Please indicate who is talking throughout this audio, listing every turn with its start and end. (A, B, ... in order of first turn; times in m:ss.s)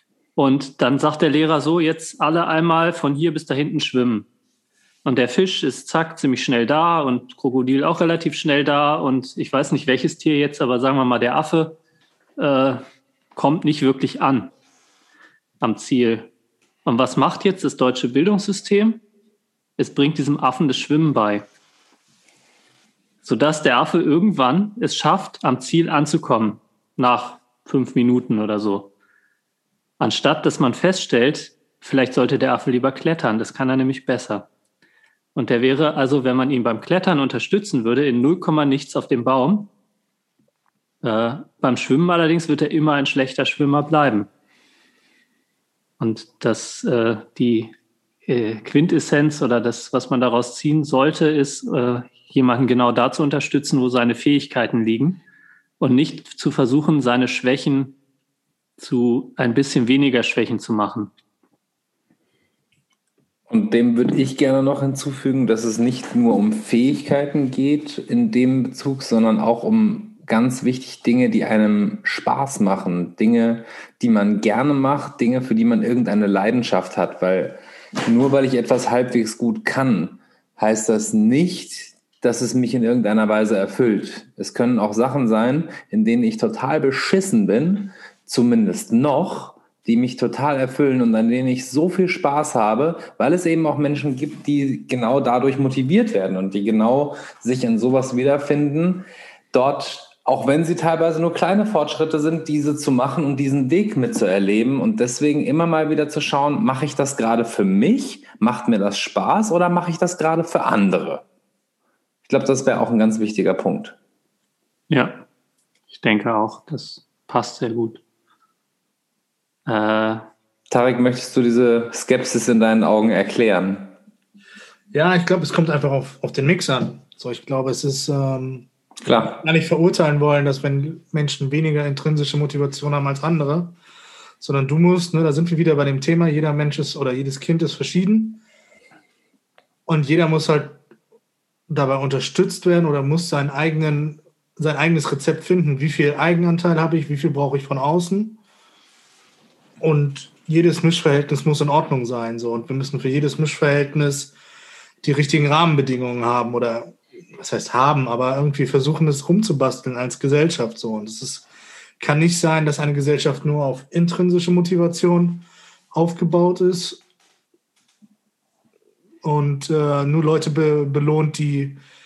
0:00.4-0:04.3 A
0:05.0-0:11.8 A
0:12.4-0:12.8 A
0:13.4-0:14.5 A
0:15.6-0:16.3 A
0:16.8-0:19.0 A
0:19.8-0:21.5 A
0:23.2-0:28.9 A
0:30.0-0:34.5 A
0:35.4-0:39.7 A
0:41.0-0:44.3 A
0:46.0-0:47.7 A
0:48.3-0:55.2 A
0:55.8-0:58.0 A
0:58.8-1:01.1 A
1:03.5-1:51.2 B
1:52.3-1:54.0 B
1:54.9-1:55.2 A
1:55.9-1:58.0 A
1:59.7-2:00.3 A
2:00.7-2:03.9 B
2:04.9-2:08.7 C
2:09.0-2:09.4 B
2:09.4-2:13.8 C
2:14.4-2:18.4 C
2:19.9-2:20.8 C
2:21.7-2:28.4 C
2:29.8-2:34.3 C
2:35.0-2:41.5 C
2:42.0-2:47.0 C
2:49.2-2:51.8 C